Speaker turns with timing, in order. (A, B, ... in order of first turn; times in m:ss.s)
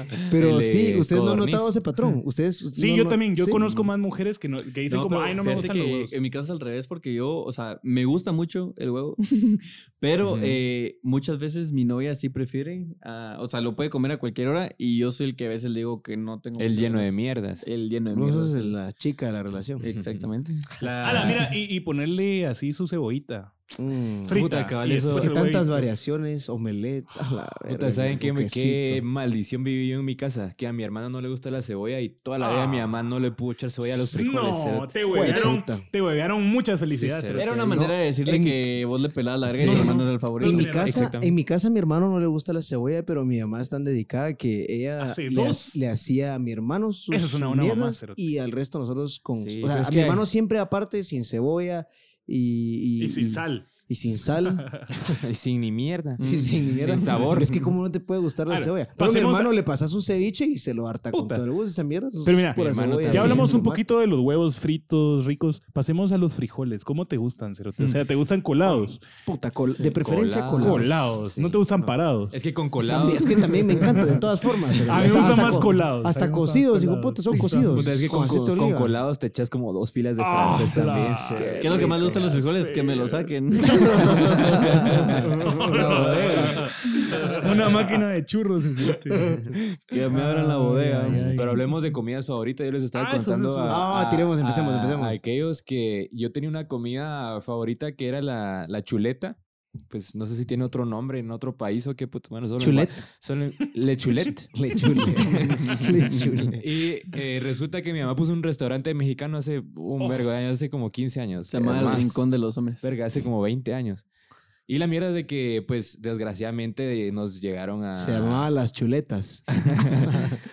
0:00.2-0:01.7 A
0:00.3-0:03.9 B
0:02.8-0:06.1 C
0:04.9-0:18.8 D
0:10.2-0:10.6 B
0:16.6-0:17.7 A
0:18.1-0:19.8 B
0:19.8-0:21.3 D
0:19.8-0:20.3 A
0:20.8-0:21.5 A
0:21.0-0:23.6 C
0:23.8-0:29.0 B
0:24.3-0:25.9 C
0:24.3-0:25.4 A
0:27.7-0:35.3 A
0:32.4-0:32.9 C
0:33.9-0:37.6 C
0:35.1-0:35.8 B
0:36.9-0:37.9 A
0:37.3-0:40.7 D
0:37.6-0:38.7 B
0:39.5-0:40.1 A
0:39.6-0:54.7 B
0:40.4-0:41.1 C
0:40.6-0:41.4 A
0:45.0-0:45.8 C
0:47.1-0:48.2 C
0:49.4-0:49.8 D
0:49.7-0:50.2 A
0:53.0-0:53.7 C
0:54.5-0:54.9 C
0:55.0-0:57.6 A
0:56.2-0:57.4 D
0:56.2-1:03.8 B
0:58.5-0:59.5 C
1:01.1-1:01.4 C
1:02.2-1:09.0 C
1:02.6-1:03.5 A
1:08.6-1:11.0 B
1:09.8-1:11.6 A
1:10.6-1:12.4 C
1:12.3-1:14.1 A
1:12.9-1:18.9 B
1:13.9-1:14.2 C
1:14.8-1:18.0 C
1:14.9-1:15.6 A
1:17.6-1:22.2 A
1:20.2-1:29.5 C
1:21.0-1:22.2 B
1:21.5-1:26.7 D
1:23.7-1:27.5 B
1:27.2-1:27.9 D
1:29.3-1:31.4 D
1:30.1-1:31.7 C
1:31.3-1:39.4 A
1:33.0-1:33.9 C
1:33.7-1:35.2 B
1:39.9-1:45.9 A
1:42.6-1:43.0 B
1:44.5-1:46.6 B
1:45.4-1:46.5 D
1:46.6-1:52.3 A
1:50.0-1:50.3 C
1:51.5-1:52.9 D
1:51.6-1:52.0 B
1:52.8-1:54.1 A
1:54.7-1:58.5 A
1:58.0-2:00.4 B
1:59.6-2:00.3 A